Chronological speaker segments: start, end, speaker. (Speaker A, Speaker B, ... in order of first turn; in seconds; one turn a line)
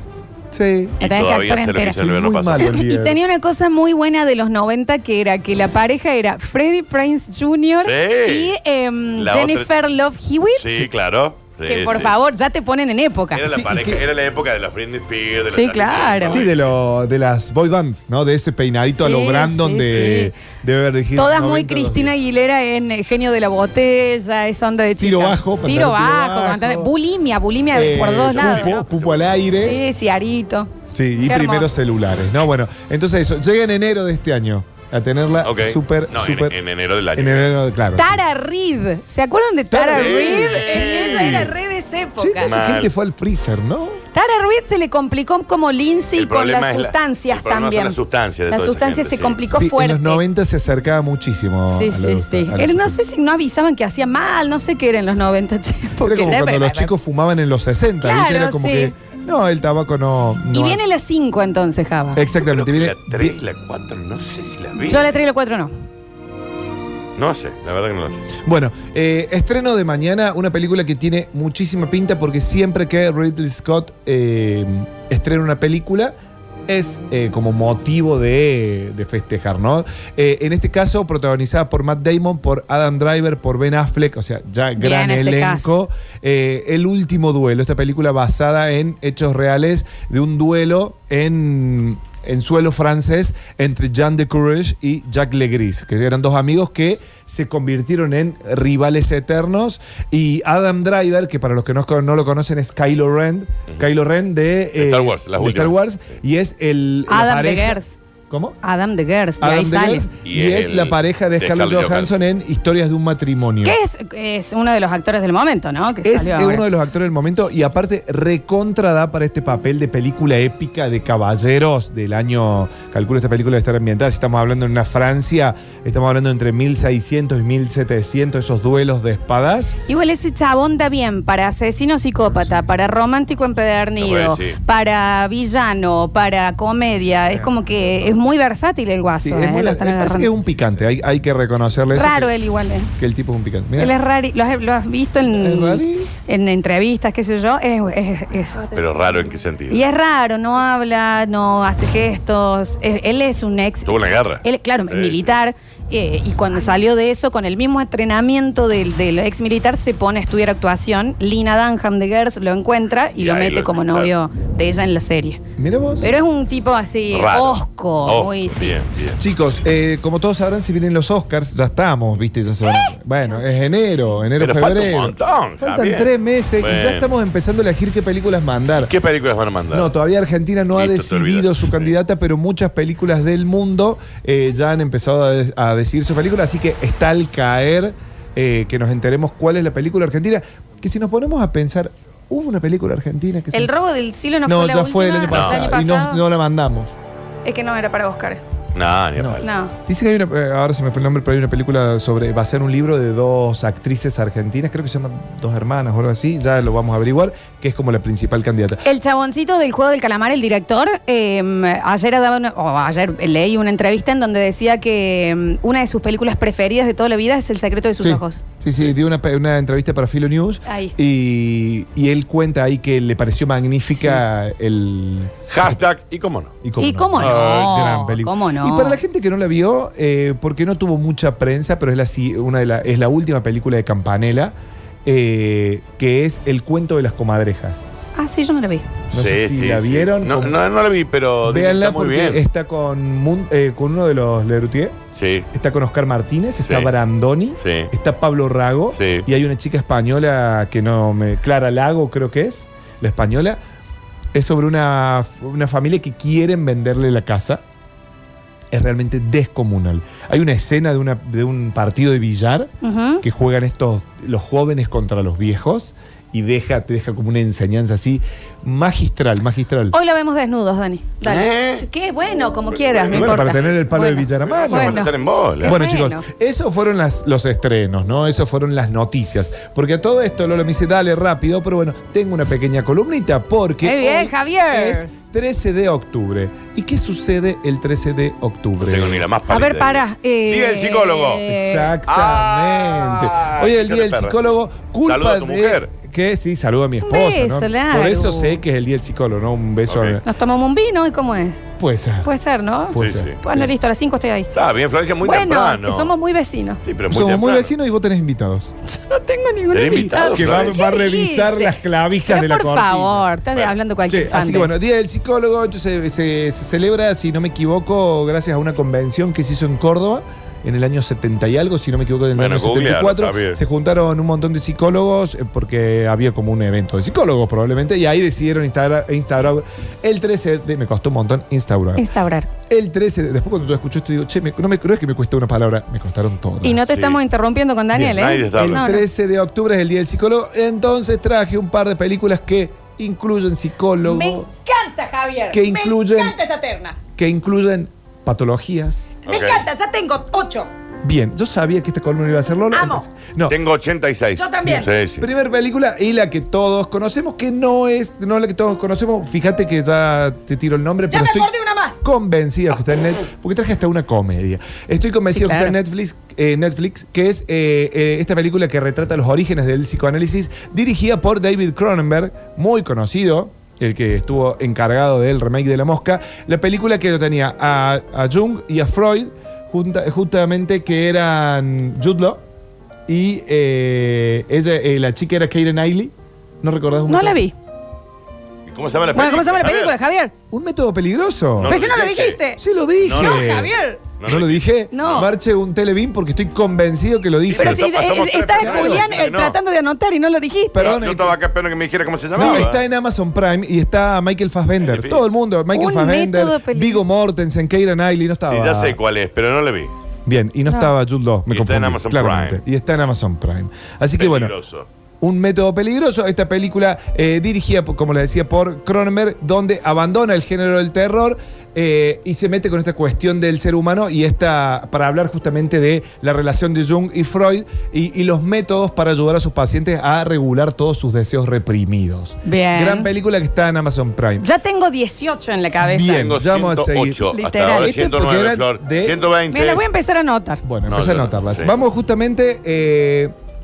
Speaker A: 0.5-1.0
Speaker B: 1.0-2.7
Speaker C: 1.0-10.8
Speaker A: 1.9-3.2
Speaker B: 7.8-8.5
Speaker B: 9.2-9.7
Speaker B: 10.6-12.1
Speaker C: 11.7-13.4
Speaker B: 13.3-16.7
Speaker A: 13.5-14.0
Speaker C: 15.5-16.4
Speaker A: 16.3-22.1
Speaker C: 18.9-20.3
Speaker C: 21.1-28.8
Speaker A: 25.0-26.9
Speaker A: 27.7-29.8
Speaker B: 28.3-29.3
Speaker C: 29.6-30.7
Speaker A: 30.9-36.5
Speaker C: 31.2-31.7
Speaker B: 35.4-37.5
Speaker A: 37.1-38.2
Speaker C: 38.0-42.5
Speaker A: 39.7-41.5
Speaker B: 39.9-41.5
Speaker A: 42.2-44.0
Speaker B: 42.4-42.9
Speaker C: 44.1-48.0
Speaker B: 46.1-49.4
Speaker C: 48.5-50.2
Speaker A: 49.5-53.0
Speaker C: 51.7-56.9
Speaker A: 56.0-60.8
Speaker C: 58.0-58.9
Speaker C: 60.5-62.2
Speaker A: 62.1-63.4
Speaker B: 62.3-65.1
Speaker C: 64.8-65.7
Speaker B: 67.2-68.2
Speaker A: 68.4-76.1
Speaker A: 76.7-108.6
Speaker C: 84.8-85.7
Speaker B: 104.8-105.8
Speaker C: 107.1-108.0
Speaker C: 108.6-110.0
Speaker A: 109.4-113.8
Speaker B: 110.2-112.2
Speaker C: 113.6-116.6
Speaker A: 116.0-129.8
Speaker C: 129.9-140.3
Speaker A: 132.2-132.7
Speaker B: 134.0-134.6
Speaker A: 139.2-142.3
Speaker C: 141.9-142.9
Speaker A: 143.0-143.9
Speaker C: 143.8-148.7
Speaker A: 145.3-146.1
Speaker B: 148.7-149.8
Speaker C: 149.7-153.9
Speaker B: 153.8-155.3
Speaker C: 154.4-165.4
Speaker B: 163.2-164.1
Speaker A: 165.6-166.1
Speaker C: 166.0-168.7
Speaker B: 167.1-169.2
Speaker A: 169.2-178.9
Speaker B: 174.4-176.1
Speaker B: 176.6-177.1
Speaker B: 178.8-179.9
Speaker A: 179.7-193.7
Speaker B: 180.7-181.9
Speaker C: 193.5-196.2
Speaker A: 194.4-196.9
Speaker B: 195.3-195.6
Speaker C: 197.4-198.4
Speaker B: 198.7-199.5
Speaker A: 199.2-208.8
Speaker C: 199.4-199.7
Speaker C: 208.8-218.4
Speaker A: 218.0-225.8
Speaker C: 220.7-220.9
Speaker B: 225.5-226.5
Speaker A: 226.6-234.5
Speaker C: 226.8-229.0
Speaker B: 227.2-227.8
Speaker A: 235.0-237.9
Speaker C: 238.2-238.9
Speaker A: 239.1-240.6
Speaker B: 239.1-242.4
Speaker A: 241.4-245.0
Speaker B: 245.2-245.5
Speaker A: 245.5-253.6
Speaker B: 246.7-246.9
Speaker B: 247.6-247.9
Speaker B: 248.9-249.2
Speaker A: 254.3-257.6
Speaker A: 258.7-262.7
Speaker C: 262.8-263.2
Speaker A: 263.2-269.9
Speaker C: 269.9-276.2
Speaker B: 271.2-271.8
Speaker B: 272.7-273.8
Speaker A: 273.1-275.0
Speaker B: 274.4-275.8
Speaker A: 275.6-289.2
Speaker C: 283.8-285.2
Speaker B: 288.8-291.4
Speaker C: 289.5-291.9
Speaker A: 291.5-300.2
Speaker B: 292.1-294.4
Speaker B: 295.0-295.9
Speaker C: 297.0-298.6
Speaker B: 299.9-300.2
Speaker C: 300.2-301.6
Speaker A: 301.8-302.3
Speaker C: 302.2-304.5
Speaker A: 302.9-303.7
Speaker B: 302.9-303.4
Speaker B: 304.5-306.1
Speaker C: 305.2-306.8
Speaker B: 306.8-307.7
Speaker A: 307.1-308.7
Speaker C: 308.9-311.7
Speaker B: 309.7-310.8
Speaker A: 310.3-313.2
Speaker C: 312.3-314.7
Speaker A: 314.1-332.1
Speaker B: 322.3-323.6
Speaker C: 332.0-332.5
Speaker A: 332.7-336.9
Speaker C: 336.6-339.0
Speaker B: 336.9-337.2
Speaker A: 337.9-344.5
Speaker B: 338.0-338.8
Speaker C: 344.0-347.0
Speaker A: 345.5-346.4
Speaker A: 347.1-349.2
Speaker C: 349.2-350.7
Speaker B: 349.2-349.6
Speaker A: 351.0-353.5
Speaker C: 352.7-353.0
Speaker B: 353.5-355.2
Speaker C: 354.4-354.9
Speaker A: 355.2-361.5
Speaker C: 361.1-362.0
Speaker A: 362.0-382.4
Speaker C: 365.3-365.7
Speaker A: 383.1-387.4
Speaker C: 387.1-387.5
Speaker B: 388.7-389.9
Speaker C: 389.1-390.3
Speaker A: 390.5-391.8
Speaker B: 391.6-392.4
Speaker C: 391.6-392.6
Speaker A: 392.6-393.7
Speaker B: 393.0-393.5
Speaker C: 393.1-394.0
Speaker B: 394.2-395.3
Speaker A: 394.2-397.9
Speaker C: 394.9-395.2
Speaker B: 397.5-399.6
Speaker C: 397.5-400.9
Speaker A: 398.5-399.0
Speaker A: 400.7-401.4
Speaker B: 400.8-402.8
Speaker A: 402.3-409.0
Speaker C: 402.4-402.6
Speaker B: 404.8-405.2
Speaker C: 405.7-407.0
Speaker B: 408.5-409.9
Speaker A: 410.2-414.5
Speaker B: 411.5-412.6
Speaker B: 414.2-414.9
Speaker A: 415.2-434.5
Speaker C: 432.4-433.1
Speaker C: 434.4-436.2
Speaker A: 435.8-439.2
Speaker B: 436.1-439.8
Speaker C: 437.3-437.9
Speaker C: 439.5-440.6
Speaker A: 440.6-443.3
Speaker B: 440.9-441.7